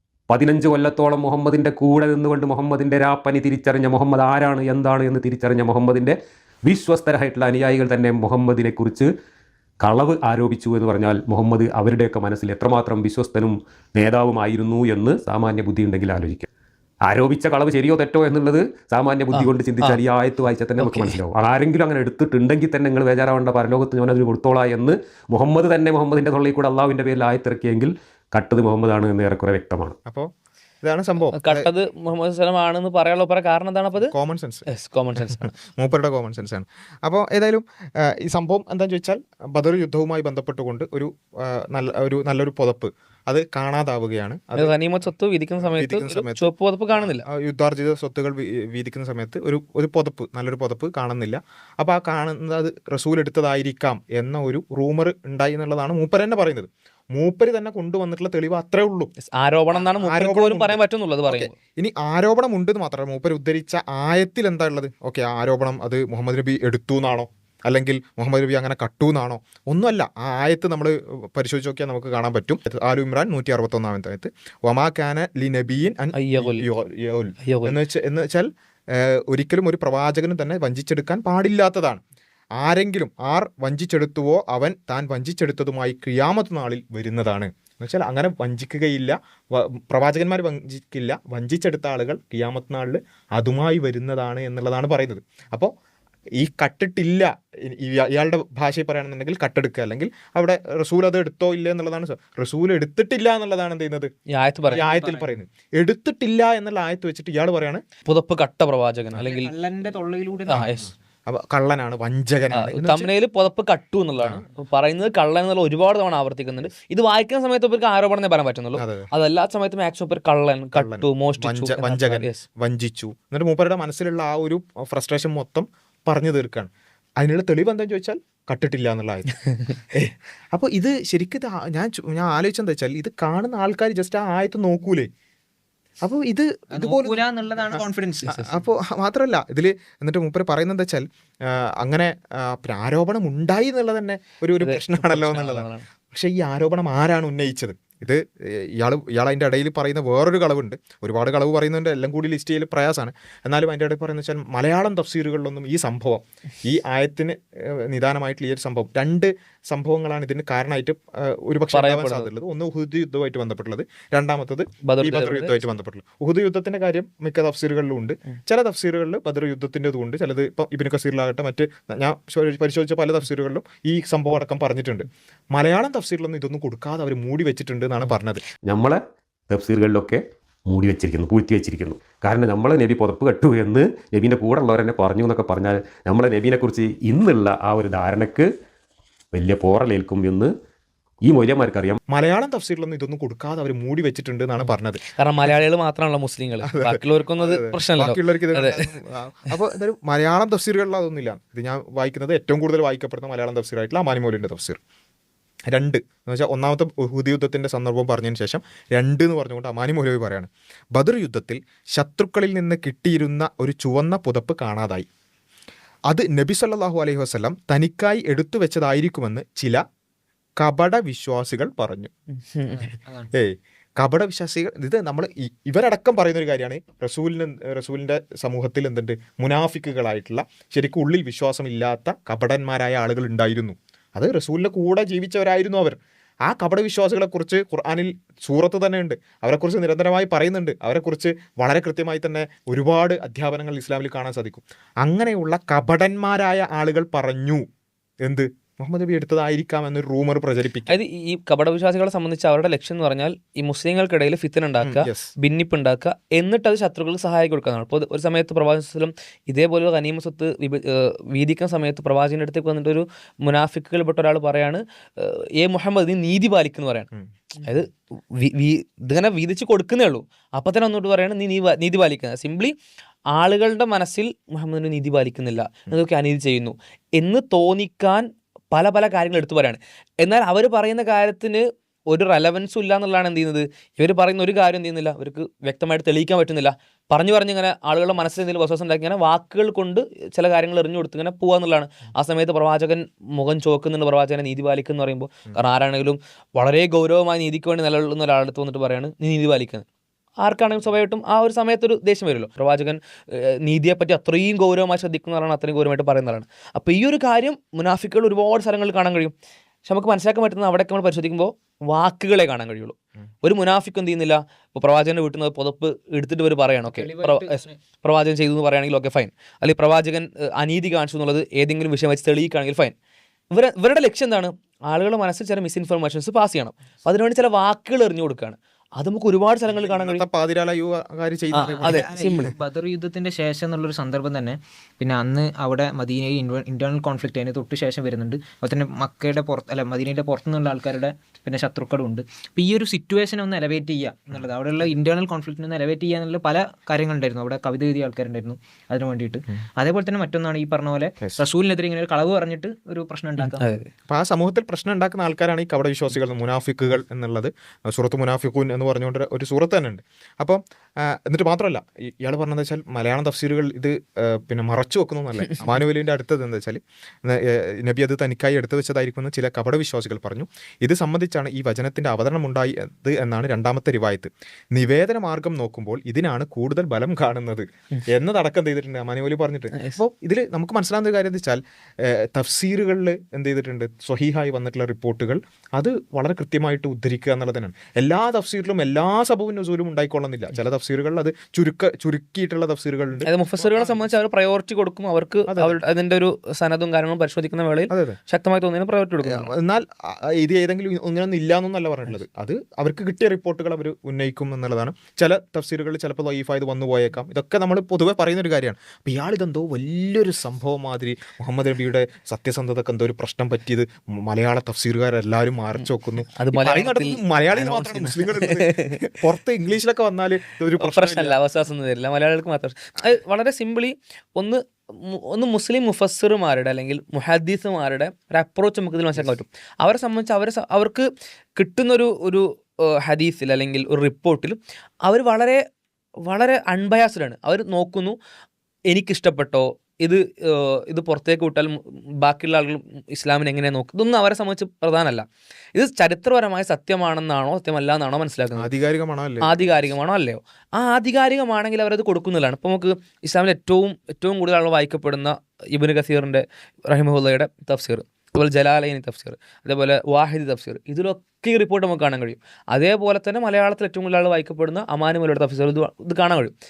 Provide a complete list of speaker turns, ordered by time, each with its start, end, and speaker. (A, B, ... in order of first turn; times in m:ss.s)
0:00.3-0:09.1 A
0:09.8-0:16.5 A
0:17.1-0:30.0 A
0:19.3-0:20.0 B
0:20.8-0:21.2 B
0:30.8-0:31.7 C
0:31.3-0:34.1 B
0:34.0-0:44.8 C
0:34.7-0:35.5 B
0:44.6-0:47.3 B
0:45.6-0:59.1 C
0:59.3-1:01.5 B
0:59.7-1:22.0 C
1:16.2-1:16.6 B
1:17.4-1:17.7 B
1:22.6-1:35.7 C
1:36.4-1:44.1 C
1:44.3-1:44.8 B
1:44.7-1:47.8 C
1:44.7-1:45.3 D
1:48.1-1:49.5 B
1:49.2-1:50.7 D
1:50.5-1:50.9 B
1:51.3-1:53.1 C
1:52.5-2:02.4 B
1:58.8-1:59.1 C
2:00.7-2:09.4 C
2:09.9-2:15.1 C
2:16.0-2:58.4 C
2:16.7-2:18.4 D
2:24.6-2:25.9 B
2:41.7-2:42.3 B
2:44.9-2:45.5 B
2:58.7-2:59.0 A
2:59.5-3:08.5 A
3:09.3-3:10.5 A
3:11.2-3:12.0 A
3:12.1-3:15.0 C
3:15.2-3:18.9 B
3:16.7-3:24.8 C
3:25.7-3:35.1 C
3:36.1-3:39.8 C
3:40.6-3:42.1 C
3:42.5-3:42.9 B
3:43.0-3:43.3 D
3:43.3-4:07.6 C
4:08.2-4:11.0 C
4:10.9-4:27.1 B
4:14.8-4:15.3 C
4:27.6-4:32.8 B
4:33.3-4:59.8 B
5:00.4-5:09.4 B
5:09.9-5:22.9 B
5:16.9-5:17.8 D
5:23.5-5:30.2 B
5:29.8-5:32.1 C
5:31.6-5:32.5 B
5:31.6-5:53.8 D
5:53.4-5:53.9 B
5:54.1-6:34.0 C
6:33.3-6:39.5 B
6:35.5-6:35.8 C
6:37.9-6:38.2 C
6:39.2-7:01.4 C
6:56.4-6:59.0 B
7:00.8-7:11.0 B
7:11.6-7:15.6 B
7:16.3-7:18.2 B
7:18.9-7:28.7 B
7:28.6-7:29.7 C
7:29.4-7:46.5 B